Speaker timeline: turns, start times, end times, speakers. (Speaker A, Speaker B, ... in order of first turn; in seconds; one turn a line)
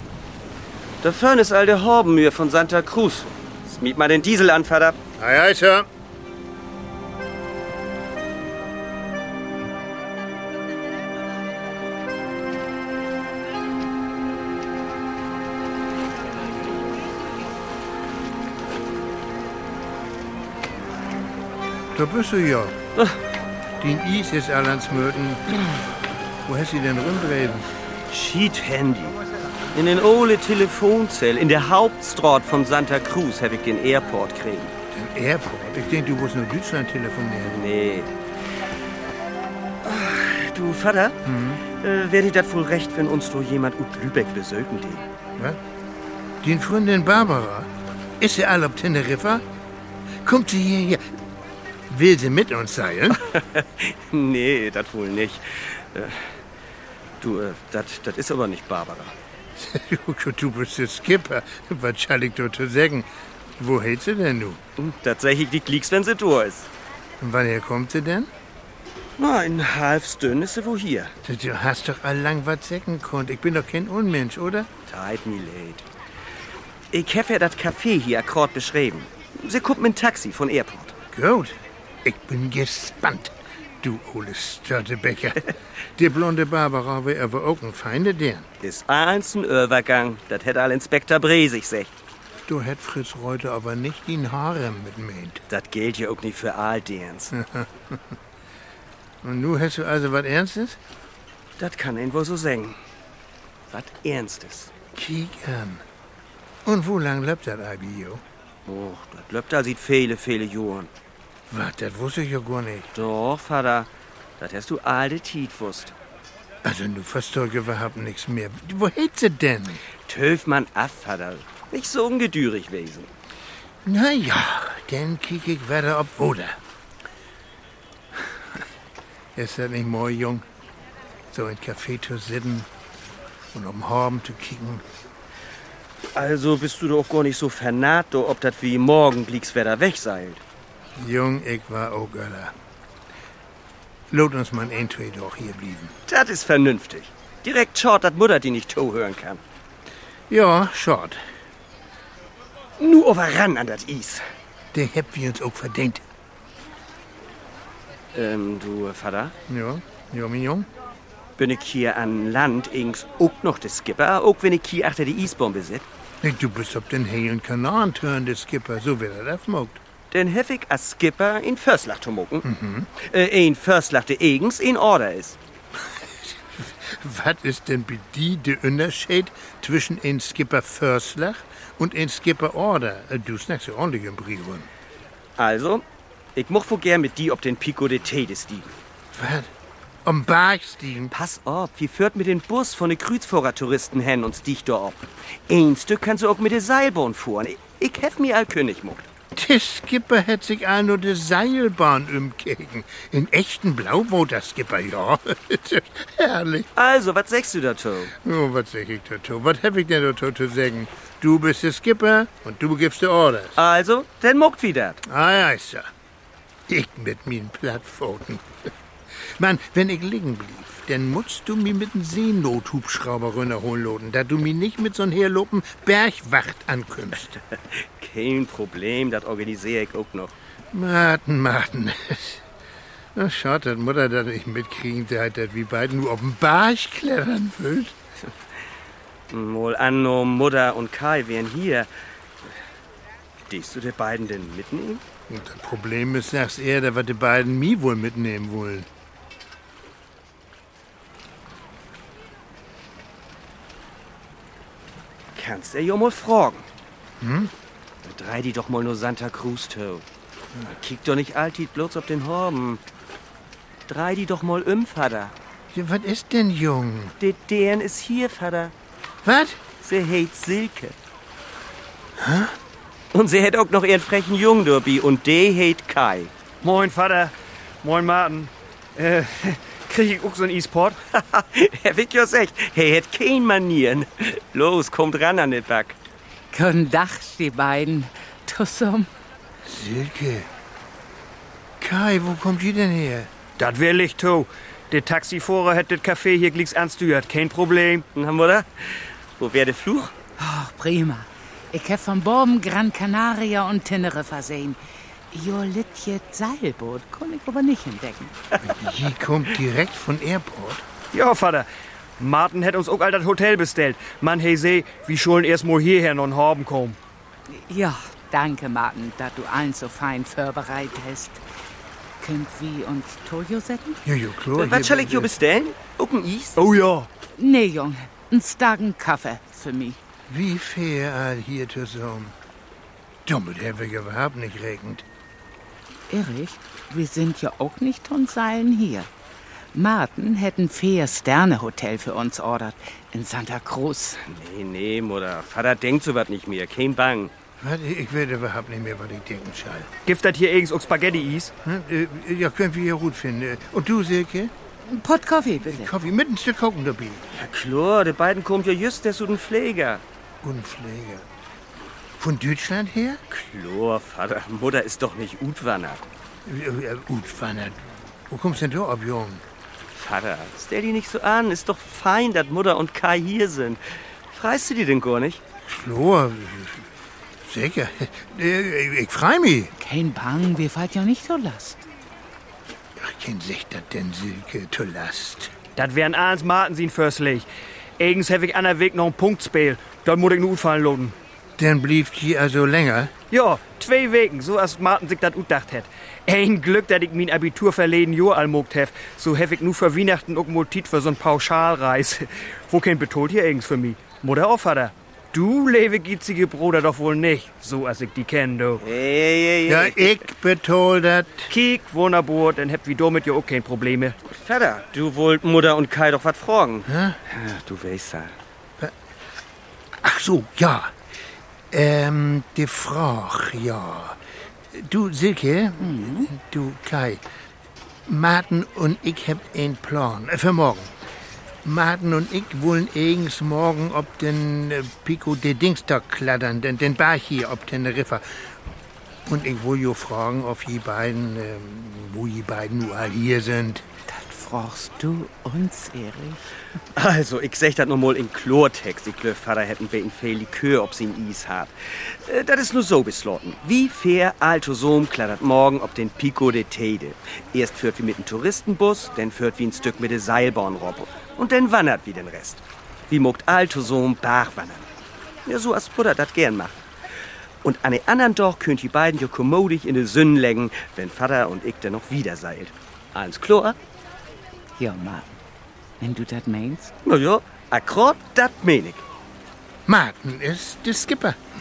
Speaker A: 1.0-5.0
Speaker B: 5.2-5.9
Speaker B: 21.9-22.8
Speaker B: 23.8-25.6
Speaker B: 26.4-27.7
Speaker A: 28.1-29.2
Speaker A: 29.7-34.7
Speaker B: 34.9-37.6
Speaker A: 37.5-38.1
Speaker A: 39.8-41.2
Speaker B: 41.2-41.6
Speaker A: 41.7-45.0
Speaker B: 46.4-47.7
Speaker B: 48.2-49.4
Speaker B: 50.2-51.0
Speaker B: 51.9-53.4
Speaker A: 53.3-56.3
Speaker A: 57.2-59.1
Speaker B: 59.5-64.6
Speaker A: 64.8-66.7
Speaker B: 67.2-68.3
Speaker A: 69.2-71.1
Speaker B: 71.2-74.7
Speaker A: 74.9-75.8
Speaker A: 76.9-80.9
Speaker B: 81.1-85.4
Speaker B: 86.0-88.5
Speaker A: 88.6-91.9
Speaker B: 92.5-95.4
Speaker A: 95.5-97.3
Speaker B: 97.3-98.0
Speaker B: 99.2-100.8
Speaker A: 101.6-102.8
Speaker A: 103.7-104.7
Speaker B: 104.9-105.8
Speaker B: 106.6-108.2
Speaker A: 108.7-110.9
Speaker B: 111.5-112.9
Speaker A: 112.9-113.9
Speaker A: 114.4-115.9
Speaker B: 116.6-119.8
Speaker A: 120.1-123.1
Speaker B: 123.8-126.6
Speaker B: 129.3-130.4
Speaker B: 131.3-132.7
Speaker B: 133.5-134.8
Speaker A: 136.1-140.4
Speaker B: 141.0-142.5
Speaker B: 144.1-145.9
Speaker A: 146.1-149.4
Speaker B: 150.3-151.2
Speaker A: 152.8-154.2
Speaker B: 154.7-156.0
Speaker A: 158.1-159.3
Speaker B: 159.5-160.7
Speaker A: 161.4-165.8
Speaker B: 166.2-169.8
Speaker A: 170.1-175.4
Speaker B: 172.4-172.9
Speaker B: 175.8-184.7
Speaker A: 185.4-185.8
Speaker A: 186.3-188.7
Speaker B: 189.1-189.5
Speaker B: 190.0-191.1
Speaker A: 191.1-199.1
Speaker B: 199.3-206.7
Speaker A: 206.8-208.1
Speaker B: 208.1-213.6
Speaker A: 213.6-215.0
Speaker B: 215.0-215.9
Speaker B: 216.7-218.4
Speaker B: 219.1-227.4
Speaker A: 227.7-230.3
Speaker B: 230.7-232.4
Speaker B: 233.1-237.9
Speaker A: 239.3-241.9
Speaker A: 243.5-245.0
Speaker B: 245.3-248.9
Speaker A: 255.3-256.6
Speaker B: 257.2-257.5
Speaker A: 258.0-260.0
Speaker A: 260.7-262.8
Speaker A: 263.9-265.3
Speaker B: 265.7-267.1
Speaker A: 267.2-268.7
Speaker B: 269.2-269.6
Speaker A: 269.8-270.9
Speaker B: 272.2-272.5
Speaker A: 273.1-276.3
Speaker C: 276.6-281.0
Speaker A: 281.1-286.0
Speaker D: 286.5-289.1
Speaker B: 289.6-290.5
Speaker B: 291.8-293.3
Speaker C: 293.6-298.0
Speaker A: 298.1-300.1
Speaker D: 300.4-304.8
Speaker D: 305.3-308.4
Speaker B: 308.6-310.8
Speaker C: 311.1-311.6
Speaker C: 312.2-317.0
Speaker D: 317.5-321.4
Speaker D: 322.2-324.0
Speaker B: 324.0-325.3
Speaker A: 324.5-326.6
Speaker C: 326.6-327.1
Speaker D: 327.4-330.0
Speaker B: 330.3-332.3
Speaker B: 333.2-335.0
Speaker D: 336.1-339.1
Speaker D: 339.7-344.2
Speaker A: 344.2-347.3
Speaker B: 347.6-349.9
Speaker C: 350.1-351.5
Speaker B: 351.6-354.5
Speaker D: 354.9-355.9
Speaker B: 355.6-357.2
Speaker A: 357.3-360.0
Speaker B: 360.4-361.2
Speaker B: 362.2-363.2
Speaker A: 363.3-366.0
Speaker B: 366.4-369.4
Speaker A: 369.9-373.8
Speaker A: 374.3-375.4
Speaker B: 375.6-376.9
Speaker B: 377.4-379.7
Speaker D: 379.8-381.8
Speaker B: 383.0-385.5
Speaker C: 385.7-387.4
Speaker C: 388.0-391.1
Speaker B: 391.6-393.1
Speaker C: 393.3-408.8
Speaker A: 408.8-410.1
Speaker B: 409.7-411.5
Speaker C: 411.5-414.1
Speaker A: 414.2-418.3
Speaker B: 416.9-417.2
Speaker B: 419.9-420.9
Speaker B: 421.7-424.2
Speaker B: 424.7-427.2
Speaker D: 425.8-426.3
Speaker B: 428.1-430.9
Speaker B: 431.6-438.5
Speaker B: 439.2-443.8
Speaker D: 444.1-446.4
Speaker A: 446.9-464.9
Speaker A: 465.4-466.8
Speaker A: 467.6-473.8
Speaker D: 474.8-475.4
Speaker D: 476.0-476.9
Speaker A: 477.0-479.0
Speaker B: 479.9-481.4